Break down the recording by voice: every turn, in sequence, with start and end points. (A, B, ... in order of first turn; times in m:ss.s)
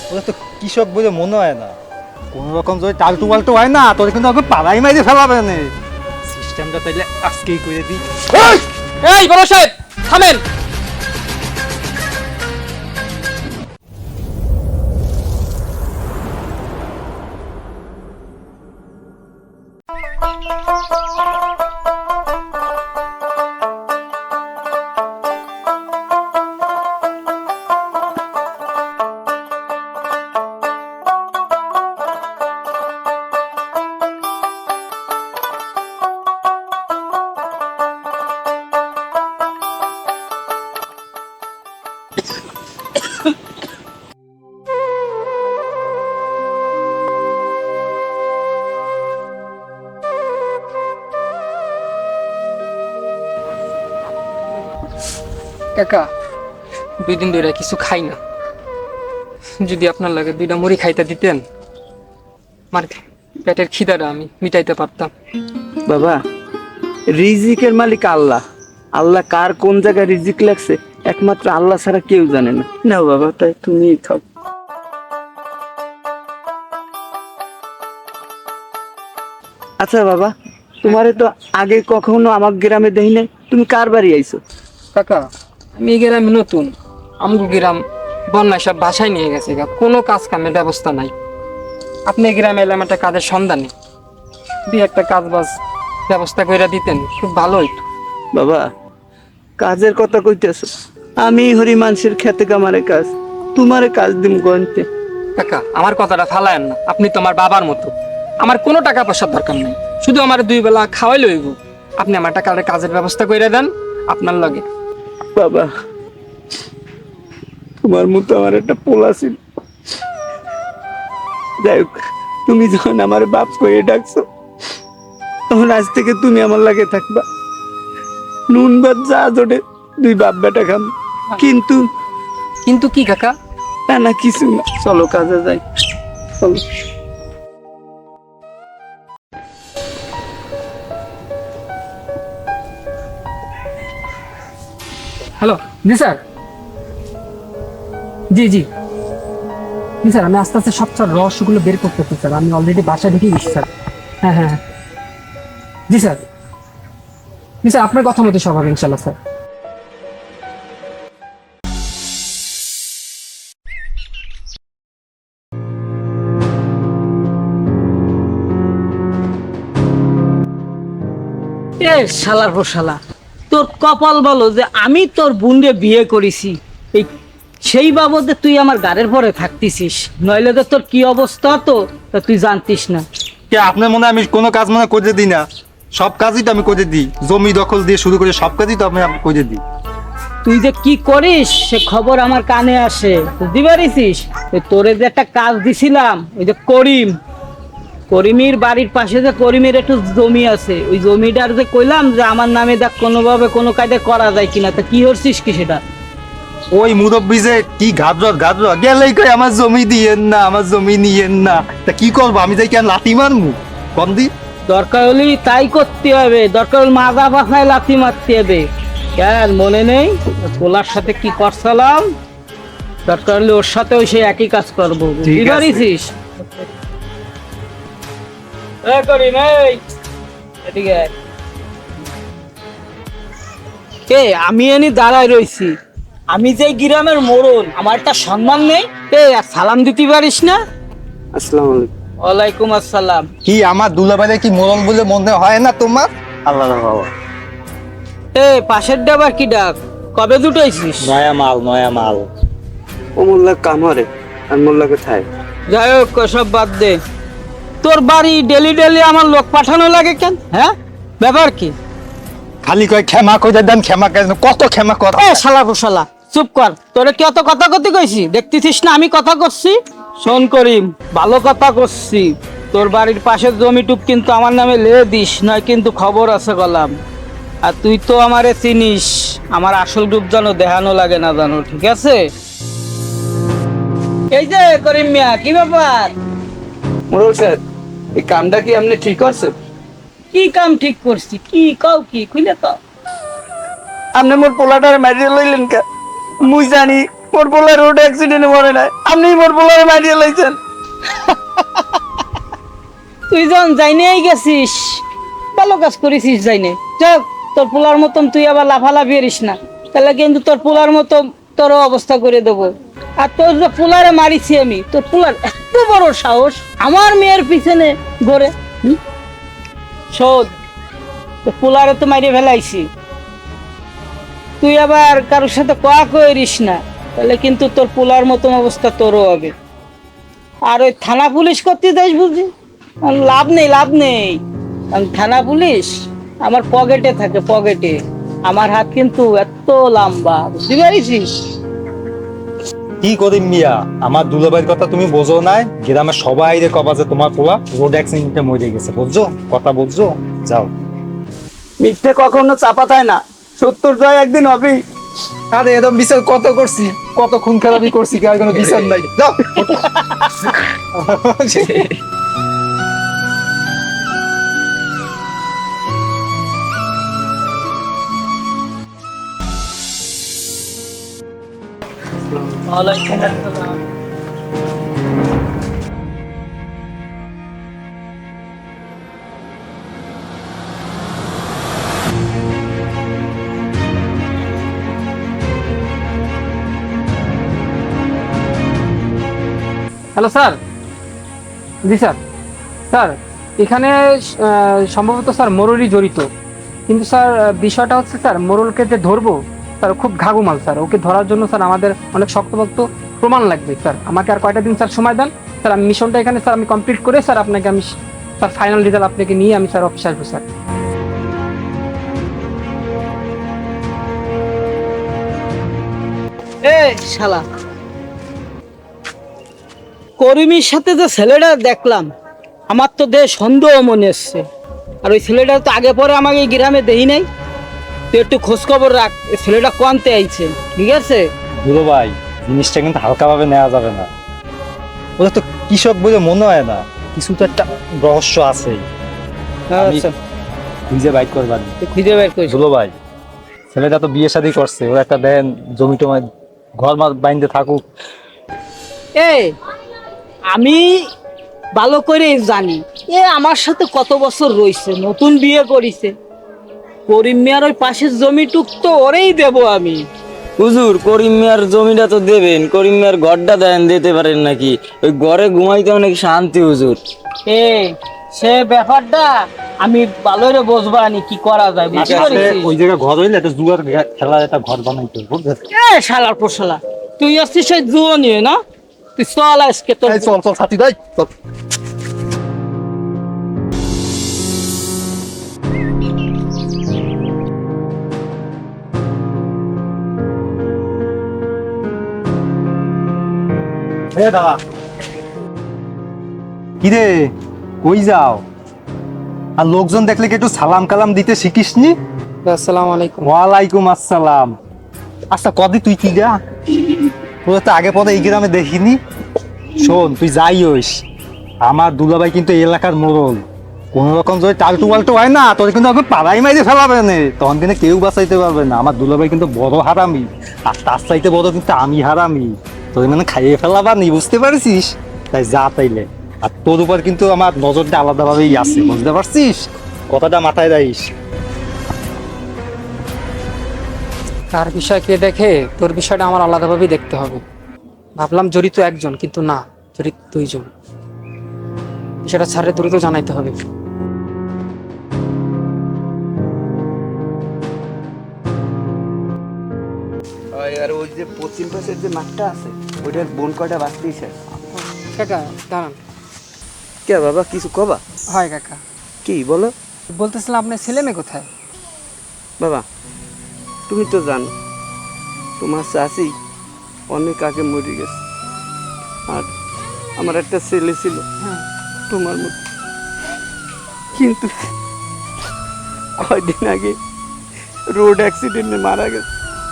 0:00.1-0:01.8 A
0:02.3-0:05.7 A
0:06.2-0:08.0 A
0:08.4-0:10.4 B
0:55.7-0:56.1 B
0:57.0-0:58.2 B
0:59.6-1:01.4 B
1:02.7-1:05.1 B
1:05.9-1:06.2 C
1:07.1-1:08.4 C
1:09.0-1:14.2 C
1:19.8-1:24.4 C
1:24.9-1:25.2 B
1:25.8-1:31.1 B
1:32.1-1:33.7 B
1:34.6-1:35.6 B
1:36.1-1:37.9 B
1:38.3-1:38.7 C
1:39.6-1:44.9 C
1:45.4-1:54.6 B
1:55.4-1:55.7 C
1:57.8-1:59.4 C
2:01.6-2:04.2 C
2:05.5-2:07.2 C
2:08.5-2:11.8 C
2:12.6-2:13.3 B
2:13.9-2:15.6 C
2:25.4-2:26.2 B
2:28.3-2:28.7 B
2:30.0-2:33.7 B
2:34.2-2:34.6 B
2:35.9-2:36.2 B
2:37.6-2:39.2 B
2:51.8-2:53.0 D
2:53.5-2:57.1 D
2:57.6-3:03.0 D
3:03.5-3:05.4 A
3:05.9-3:09.6 A
3:10.4-3:17.2 D
3:18.1-3:25.8 D
3:26.7-3:34.3 A
3:34.7-3:38.6 D
3:39.2-3:42.1 D
3:43.1-3:46.1 D
3:45.4-3:45.8 A
3:48.8-3:49.8 D
3:50.6-3:51.1 D
3:54.1-3:55.7 D
3:56.3-4:00.6 D
4:01.3-4:01.9 C
4:02.2-4:03.3 D
4:03.4-4:07.1 A
4:08.3-4:11.1 D
4:11.0-4:12.3 A
4:13.2-4:15.3 C
4:15.7-4:17.0 D
4:17.8-4:21.7 D
4:22.6-4:25.4 A
4:25.2-4:37.0 D
4:37.6-4:42.2 D
4:44.3-4:46.1 D
4:47.1-4:47.6 C
4:48.2-4:49.5 C
4:50.3-4:52.8 D
4:54.1-4:55.8 C
4:56.4-5:00.6 C
5:03.3-5:05.0 D
5:05.5-5:19.0 D
5:20.1-5:20.5 D
5:21.4-5:22.9 D
5:24.6-5:29.5 D
5:30.7-5:32.5 D
5:33.0-5:34.4 D
5:34.9-5:41.4 D
5:43.0-5:50.7 A
5:51.8-5:54.8 C
5:55.5-6:01.9 A
6:12.7-6:13.7 D
6:30.1-6:30.6 B
6:31.8-6:32.2 B
6:32.9-6:36.3 B
6:36.9-6:50.4 B
6:56.6-6:57.4 D
7:00.2-7:02.1 D
7:02.7-7:04.4 D
7:05.0-7:07.2 D
7:08.1-7:11.3 D
7:11.6-7:14.1 A
7:15.2-7:18.8 A
7:19.7-7:20.1 D
7:19.8-7:20.1 A
7:20.9-7:21.8 A
7:21.8-7:22.6 D
7:22.5-7:22.9 A
7:23.7-7:27.8 A
7:29.2-7:29.5 D
7:30.5-7:31.0 D
7:31.8-7:36.1 D
7:37.1-7:40.0 D
7:40.6-7:47.0 E
7:47.5-7:52.7 D
7:51.9-7:55.6 A
7:52.0-7:52.5 E
7:55.7-7:58.6 D
7:59.2-8:00.3 D
8:00.0-8:01.3 A
8:14.1-8:14.6 A
8:16.8-8:18.4 A
8:19.6-8:22.0 A
8:22.4-8:23.3 B
8:23.2-8:24.6 A
8:25.3-8:26.4 A
8:27.4-8:29.0 A
8:29.7-8:31.0 A
8:31.6-8:51.1 A
8:54.5-8:57.4 B
8:58.2-9:00.7 B
9:02.2-9:03.6 B
9:10.5-9:14.4 C
9:14.7-9:16.0 B
9:17.0-9:18.0 C
9:18.3-9:18.8 B
9:19.2-9:19.7 C
9:20.1-9:21.5 B
9:22.6-9:22.8 C
9:23.9-9:24.5 C
9:25.6-9:26.3 C
9:27.1-9:28.2 C
9:30.2-9:31.2 C
9:32.1-9:32.6 C
9:34.1-9:34.5 C
9:36.2-9:37.0 C
9:37.9-9:39.3 C